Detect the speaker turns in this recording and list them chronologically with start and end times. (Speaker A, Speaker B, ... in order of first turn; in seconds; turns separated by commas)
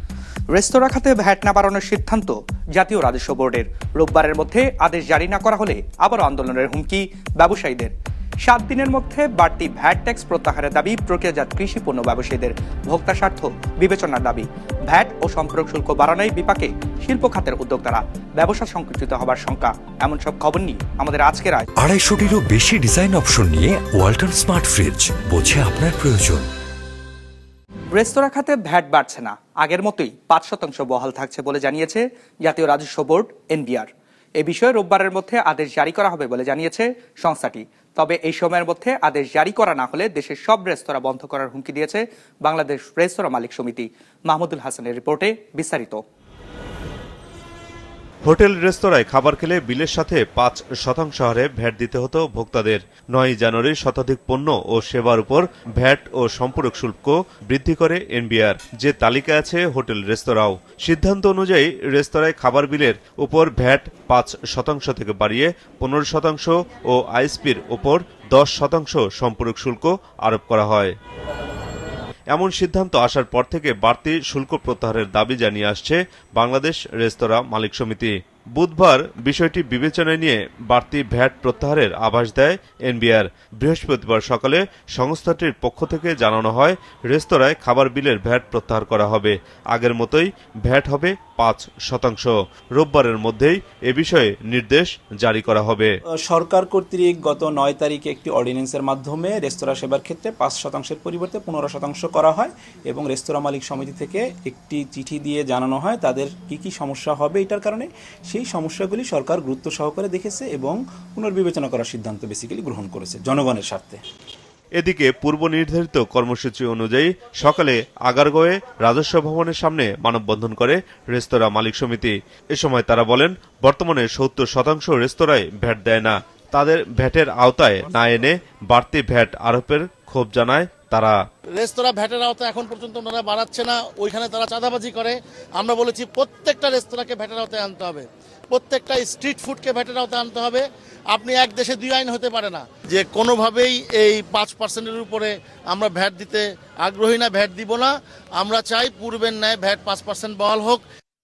Speaker A: 0.5-7.9, Speaker A: 8.5-21.7, Speaker B: 21.8-26.5, Speaker A: 27.9-33.9, Speaker A: 34.4-46.0, Speaker C: 48.2-70.9, Speaker C: 72.3-95.9, Speaker D: 96.3-114.0, Speaker C: 114.8-131.2, Speaker E: 131.5-150.8